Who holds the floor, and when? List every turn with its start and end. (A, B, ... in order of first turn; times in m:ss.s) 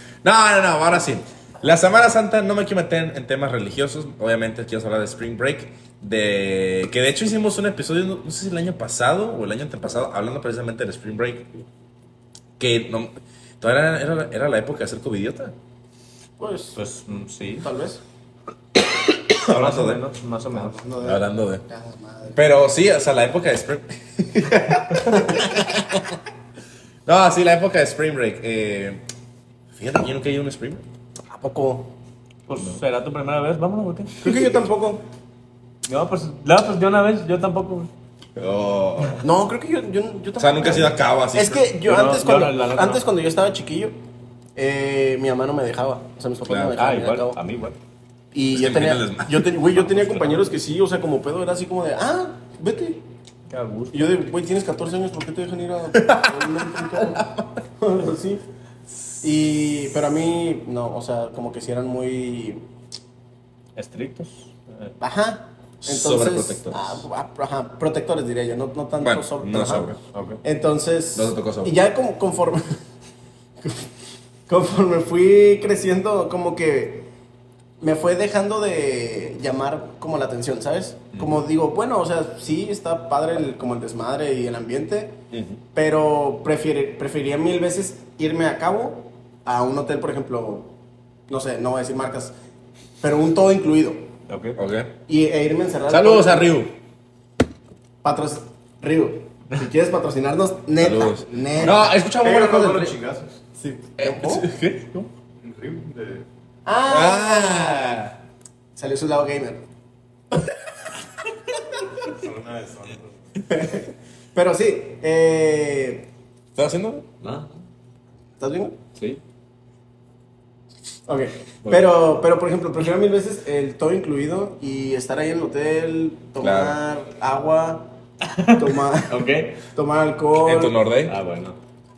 0:00.2-0:11.6 A
0:12.6-0:15.6 A
0:16.4-0:16.8 B
0:16.8-0:17.7 C
0:17.6-0:18.0 B
0:19.4-0:20.0 A
0:19.4-0:20.8 C
0:20.5-0:22.4 B
0:21.0-0:21.6 A
0:22.4-0:25.7 A
0:25.0-0:26.1 B
0:27.1-0:29.0 A
0:29.8-0:30.8 A
0:31.3-0:31.9 B
0:32.5-0:34.4 C
0:34.2-0:35.0 B
0:35.9-0:37.9 C
0:38.4-0:39.2 A
0:39.2-0:44.0 B
0:40.4-0:41.6 A
0:41.8-0:43.1 C
0:44.6-0:47.4 B
0:46.5-0:46.8 A
0:46.8-0:47.8 C
0:48.3-0:53.0 B
0:48.5-0:49.5 A
0:49.9-0:50.4 C
0:53.5-0:54.2 C
0:53.9-0:58.4 B
0:56.0-0:57.2 A
0:59.2-1:02.6 B
1:03.8-1:04.9 C
1:05.0-1:09.9 B
1:05.8-1:07.0 A
1:09.0-1:10.0 A
1:10.1-1:10.4 C
1:10.4-1:12.8 B
1:11.2-1:11.7 A
1:13.6-1:13.9 B
1:14.5-1:17.1 B
1:17.8-1:25.2 B
1:25.8-1:30.7 B
1:31.3-1:32.3 B
1:33.0-1:34.1 B
1:34.3-1:34.6 C
1:34.6-1:34.9 A
1:35.1-1:36.5 B
1:35.9-1:36.7 A
1:38.0-1:41.9 B
1:40.8-1:43.0 A
1:42.2-1:43.4 D
1:43.6-1:44.5 B
1:44.0-1:45.1 A
1:45.4-1:46.3 D
1:46.7-1:48.0 B
1:46.9-1:48.2 A
1:48.8-1:49.6 B
1:52.1-1:53.4 D
1:53.5-1:53.8 B
1:54.3-1:56.1 B
1:56.6-1:57.1 A
1:57.2-1:57.5 C
1:58.4-1:58.8 B
2:01.1-2:07.9 B
2:06.4-2:06.8 A
2:08.2-2:09.6 C
2:08.6-2:10.8 B
2:10.4-2:11.2 A
2:11.1-2:11.6 C